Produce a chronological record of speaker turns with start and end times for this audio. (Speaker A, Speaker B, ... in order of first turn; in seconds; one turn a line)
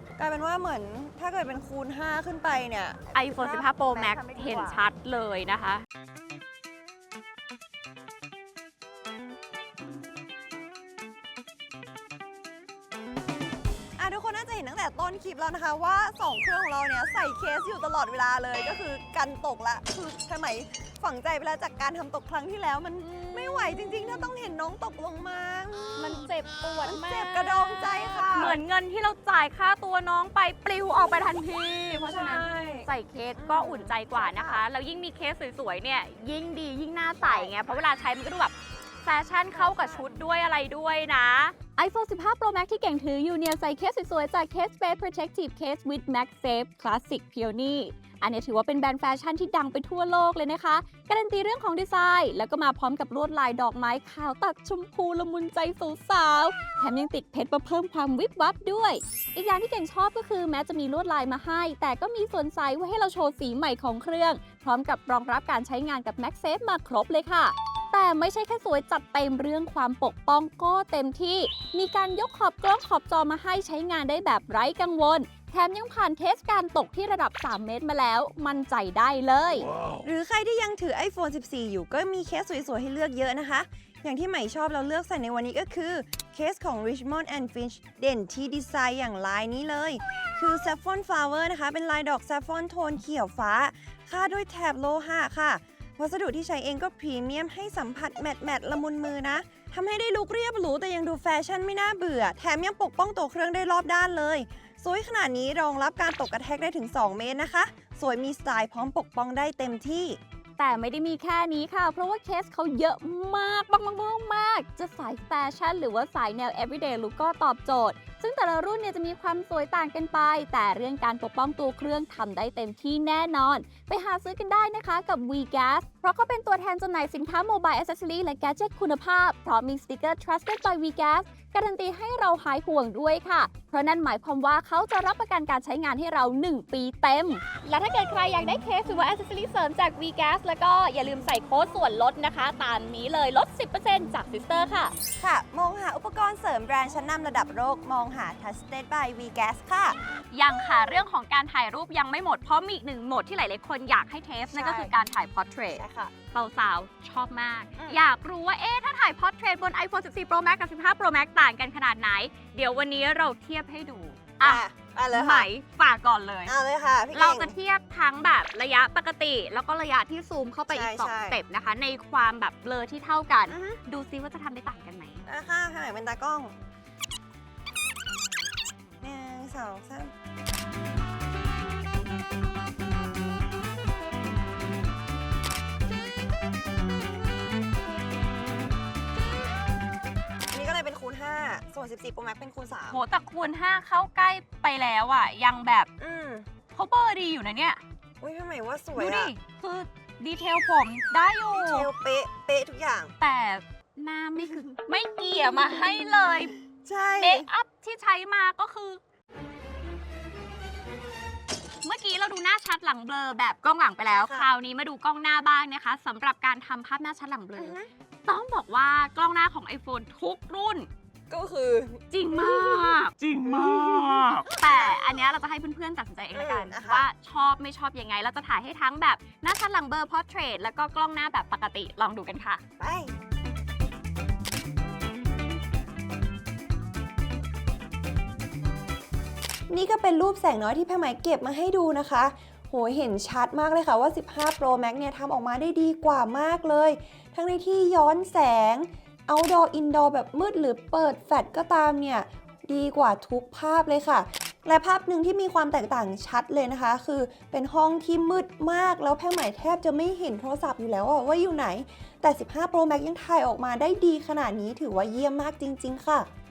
Speaker A: 0.2-4.8
Speaker B: 3.1-5.8
Speaker A: 14.0-26.2
Speaker B: 23.0-24.3
Speaker B: 25.9-38.5
Speaker A: 26.8-28.6
Speaker A: 31.9-34.6
Speaker A: 37.2-37.6
Speaker B: 39.0-79.7
Speaker A: 39.5-40.2
Speaker A: 80.0-110.2
Speaker B: 110.6-144.9
Speaker A: 145.2-150.0
Speaker B: 150.3-166.6
Speaker A: 154.5-154.9
Speaker A: 155.7-156.1
Speaker A: 164.4-165.5
Speaker A: 166.4-167.6
Speaker B: 167.1-175.2
Speaker A: 170.7-171.4
Speaker A: 173.5-173.8
Speaker A: 175.3-176.5
Speaker A: 179.0-180.1
Speaker A: 190.5-193.0
Speaker B: 192.9-195.9
Speaker A: 196.0-196.5
Speaker B: 196.7-197.8
Speaker A: 198.2-199.3
Speaker B: 198.9-201.9
Speaker A: 201.5-203.1
Speaker B: 203.2-206.5
Speaker A: 204.4-204.8
Speaker A: 206.8-207.5
Speaker B: 207.2-209.0
Speaker B: 211.8-220.9
Speaker A: 214.2-214.5
Speaker A: 217.6-217.9
Speaker A: 221.3-225.2
Speaker B: 222.1-232.6
Speaker A: 226.3-227.1
Speaker A: 232.8-233.2
Speaker A: 239.7-266.3